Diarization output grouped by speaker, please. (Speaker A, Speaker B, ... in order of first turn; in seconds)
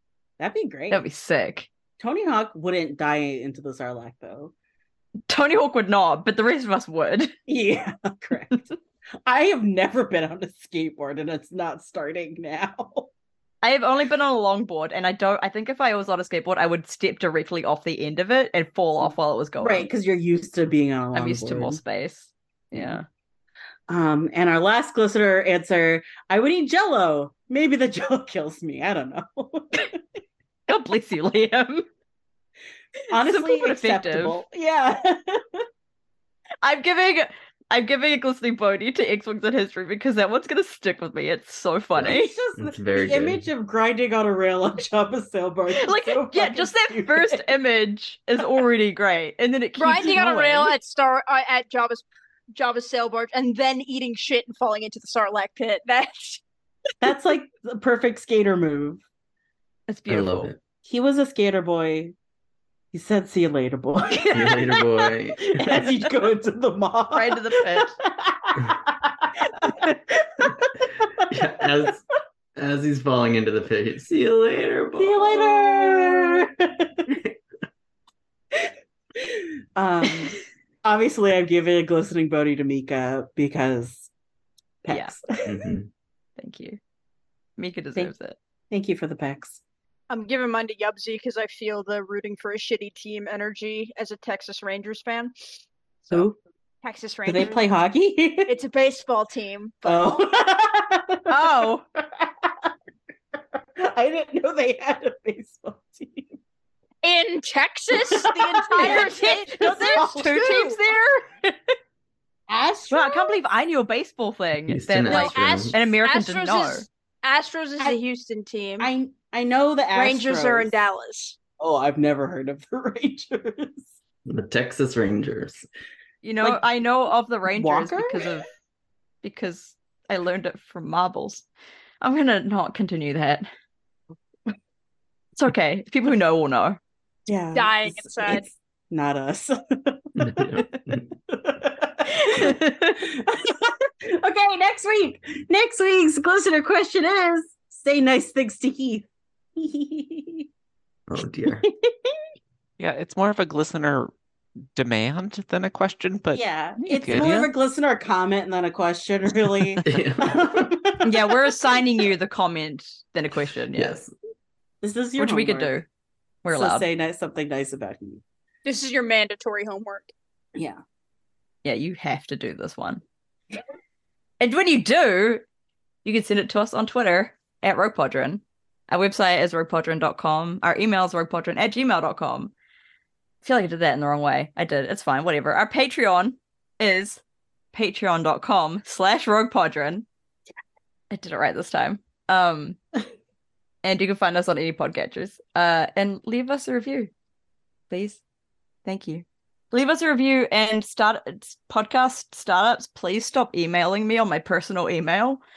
Speaker A: 0.4-1.0, 2.0-4.5, 7.5-8.7, 9.2-13.1, 19.6-21.8, 23.9-30.0, 33.1-35.6, 42.0-47.5, 57.0-59.0, 60.8-62.1, 62.9-64.5, 65.4-71.3, 75.0-77.1, 78.5-84.1, 84.8-85.7, 88.7-89.6, 96.1-96.4, 97.2-98.5, 99.8-102.7, 103.8-106.4, 108.0-110.7, 112.5-113.4, 118.8-120.7, 121.6-123.9, 127.5-128.2, 137.3-140.4, 141.3-150.5, 151.6-152.1, 156.3-161.4, 164.8-165.8, 166.5-168.2, 170.6-170.8
Speaker B: 0.9-1.7, 5.3-7.3, 13.6-19.9, 21.1-23.0, 30.7-31.9, 33.2-34.4, 36.6-42.4, 45.7-50.8, 59.9-60.5, 64.1-65.1, 67.1-67.9, 86.4-86.8, 87.6-88.3, 101.3-101.8, 108.8-111.7, 112.9-116.8, 126.2-128.4, 129.2-131.4, 132.0-133.5, 135.4-136.8, 142.2-143.0, 161.0-164.0, 165.2-165.8, 166.4-166.8, 171.6-173.0, 174.4-175.4, 176.0-182.5, 183.4-187.2, 187.7-190.0, 191.1-192.8, 193.8-197.1, 197.9-198.2, 198.8-205.4
Speaker C: 42.0-43.4, 60.1-60.6, 64.3-65.4, 71.2-72.0, 72.5-75.4, 85.4-85.9, 114.7-115.7, 124.2-125.7, 140.2-141.0, 151.1-151.6, 159.8-160.7, 163.7-164.1
Speaker D: 49.8-56.4, 90.1-95.3, 96.8-97.6, 98.5-100.2, 107.0-110.8, 115.1-118.9, 119.9-121.4, 137.5-138.4, 168.6-170.1
Speaker E: 152.8-154.1, 154.7-157.5